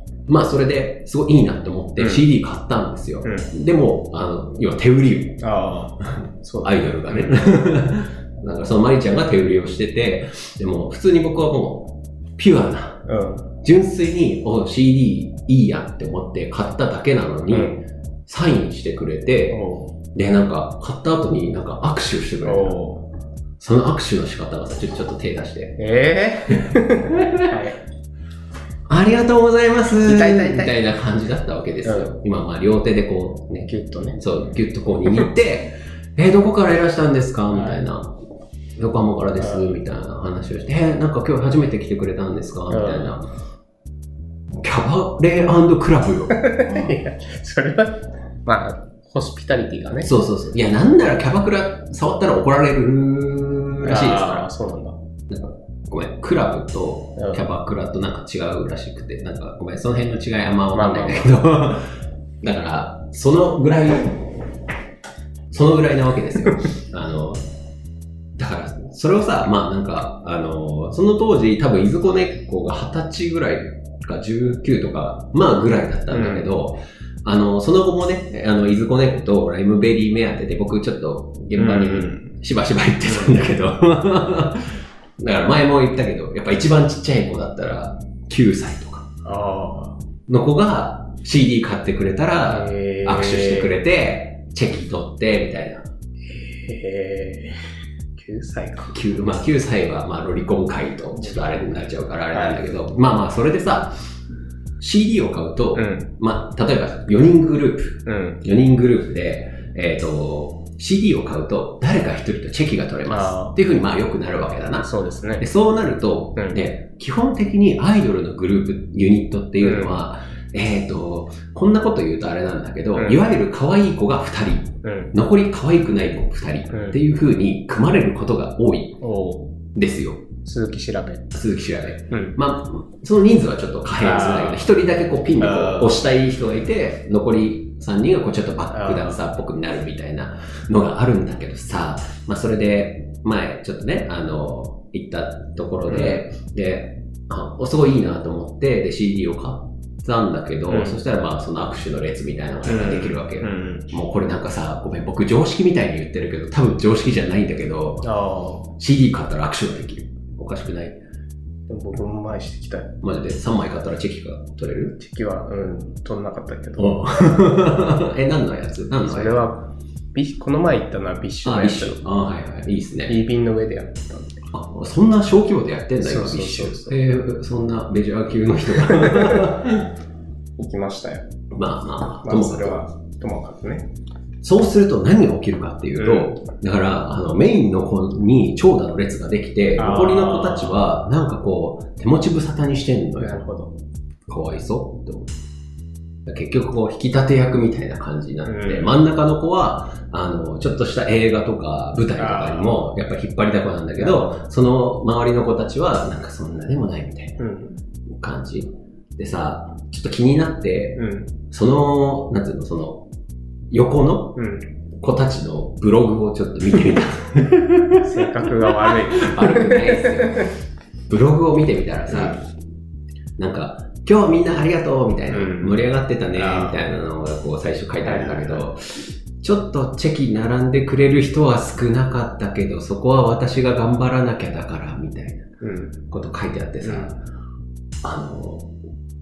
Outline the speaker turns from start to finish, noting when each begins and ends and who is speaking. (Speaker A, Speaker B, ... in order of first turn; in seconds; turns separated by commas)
Speaker A: 0.3-5.4, Speaker B: 2.0-2.2, Speaker B: 3.2-3.5, Speaker B: 5.4-7.5, Speaker A: 6.0-13.0, Speaker B: 13.1-13.5, Speaker A: 13.6-19.6, Speaker B: 17.5-17.8, Speaker B: 19.5-20.0, Speaker A: 20.1-22.8, Speaker B: 22.4-23.1, Speaker A: 23.6-25.8, Speaker B: 25.8-27.8, Speaker A: 26.7-27.5, Speaker A: 28.9-38.2, Speaker B: 30.0-30.8, Speaker B: 31.8-32.1, Speaker B: 33.7-34.2, Speaker B: 37.5-37.8, Speaker A: 38.8-43.3, Speaker B: 39.4-39.8, Speaker B: 42.7-43.1, Speaker A: 44.6-46.9, Speaker B: 46.4-50.1, Speaker A: 50.0-54.5, Speaker B: 53.8-55.0, Speaker A: 55.3-64.4, Speaker B: 57.2-57.4, Speaker B: 60.7-61.4, Speaker A: 65.5-67.5, Speaker A: 68.4-89.1, Speaker B: 76.1-76.5, Speaker B: 81.5-82.4, Speaker B: 83.0-83.4, Speaker B: 89.2-90.0, Speaker A: 90.3-95.9, Speaker B: 92.5-93.8, Speaker B: 96.3-99.0, Speaker A: 98.9-104.0, Speaker B: 102.3-102.6, Speaker A: 104.8-129.0, Speaker B: 105.8-106.1, Speaker B: 108.1-108.4, Speaker B: 113.1-113.5, Speaker B: 114.8-115.5, Speaker B: 119.6-120.0, Speaker B: 123.0-123.2, Speaker B: 124.8-125.1, Speaker B: 126.7-127.0, Speaker B: 129.0-129.5, Speaker A: 129.8-130.3, Speaker B: 130.4-131.3, Speaker A: 131.3-158.1, Speaker B: 132.1-132.4, Speaker B: 134.0-134.7, Speaker B: 135.4-136.0, Speaker B: 138.7-139.2, Speaker B: 145.9-146.2, Speaker B: 150.7-151.0, Speaker B: 152.7-153.9, Speaker B: 158.0-158.7, Speaker A: 158.8-161.0, Speaker B: 161.7-163.0, Speaker A: 163.0-165.0, Speaker B: 165.0-167.2, Speaker A: 166.8-169.4, Speaker B: 169.1-172.0, Speaker A: 171.4-173.2, Speaker B: 173.1-174.4, Speaker A: 174.5-179.9, Speaker B: 176.0-177.0, Speaker B: 178.9-179.5, Speaker B: 180.6-181.3, Speaker A: 181.5-182.8, Speaker B: 182.2-183.9, Speaker A: 184.4-193.4, Speaker B: 186.0-186.4, Speaker B: 189.8-190.9, Speaker B: 193.2-193.8, Speaker A: 194.3-195.3, Speaker A: 196.2-207.4, Speaker B: 198.4-199.0, Speaker B: 202.2-202.9, Speaker B: 204.0-204.4, Speaker B: 207.4-207.8, Speaker A: 208.1-213.1, Speaker B: 211.0-211.3, Speaker A: 213.7-214.4, Speaker B: 214.4-214.7, Speaker A: 215.0-218.1, Speaker B: 218.0-220.5, Speaker A: 218.8-220.5, Speaker A: 221.1-222.5, Speaker B: 222.1-222.4, Speaker A: 223.4-235.5, Speaker B: 225.3-226.9, Speaker B: 228.0-228.7, Speaker B: 235.6-236.0, Speaker A: 236.1-237.2, Speaker B: 236.8-237.2, Speaker A: 238.0-238.7